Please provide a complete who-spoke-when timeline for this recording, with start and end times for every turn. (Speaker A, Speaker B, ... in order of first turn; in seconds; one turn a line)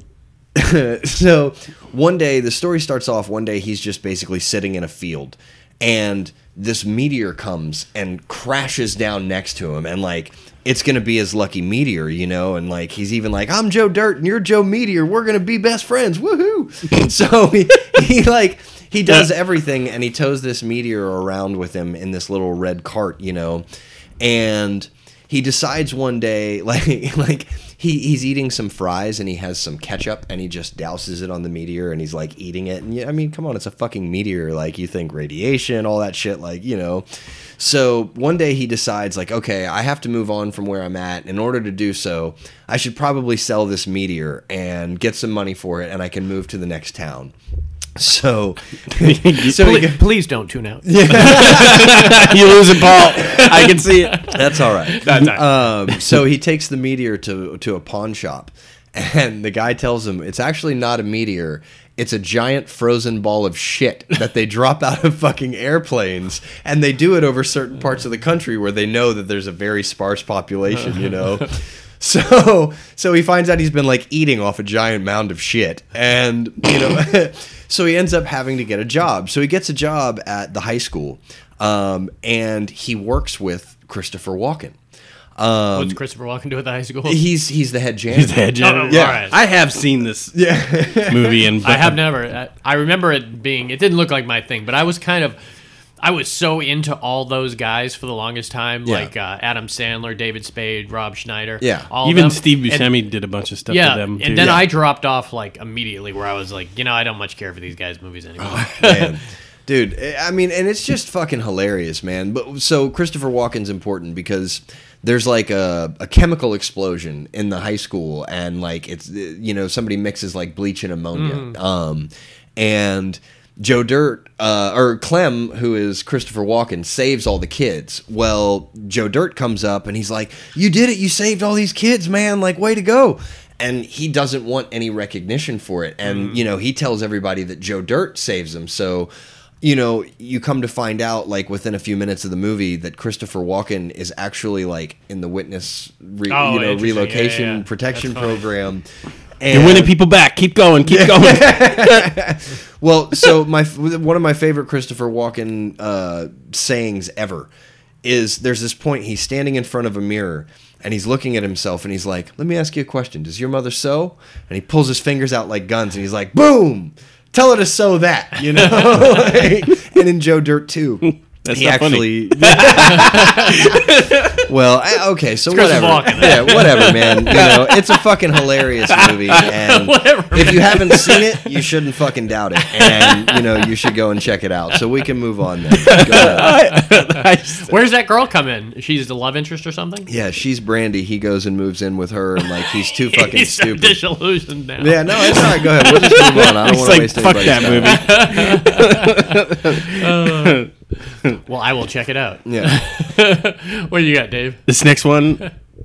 Speaker A: 0.5-23.6
Speaker A: 24.2-37.0
Speaker A: 37.6-47.3
Speaker A: 48.0-50.0
Speaker B: 49.0-49.6
Speaker C: 49.5-51.7
Speaker A: 50.8-52.5
Speaker B: 51.1-54.4
Speaker C: 53.3-55.7
Speaker A: 54.3-84.8
Speaker A: 85.3-86.0
Speaker C: 85.7-87.2
Speaker A: 87.0-89.3
Speaker B: 88.1-90.4
Speaker C: 88.6-89.3
Speaker A: 90.3-91.5
Speaker B: 91.0-92.1
Speaker C: 91.6-95.4
Speaker C: 96.0-102.9
Speaker A: 98.8-99.1
Speaker A: 101.6-101.9
Speaker B: 102.0-104.6
Speaker C: 103.7-109.1
Speaker A: 104.3-104.6
Speaker A: 108.4-139.1
Speaker C: 121.1-121.6
Speaker C: 136.0-136.4
Speaker A: 139.6-148.8
Speaker C: 146.3-148.4
Speaker A: 149.4-149.9
Speaker B: 149.5-152.2
Speaker A: 150.8-157.5
Speaker A: 158.0-173.8
Speaker B: 171.1-174.5
Speaker C: 173.0-173.3
Speaker A: 174.3-186.5
Speaker C: 175.5-177.7
Speaker B: 176.1-177.8
Speaker B: 178.9-179.4
Speaker C: 179.3-181.3
Speaker C: 182.6-183.7
Speaker B: 185.8-187.7
Speaker C: 185.9-186.6
Speaker C: 187.1-190.1
Speaker A: 190.1-194.0
Speaker C: 192.7-195.6
Speaker A: 194.8-198.1
Speaker B: 195.6-200.7
Speaker C: 197.8-199.3
Speaker C: 199.9-200.7
Speaker C: 201.4-204.6
Speaker A: 202.4-202.8
Speaker B: 204.7-205.4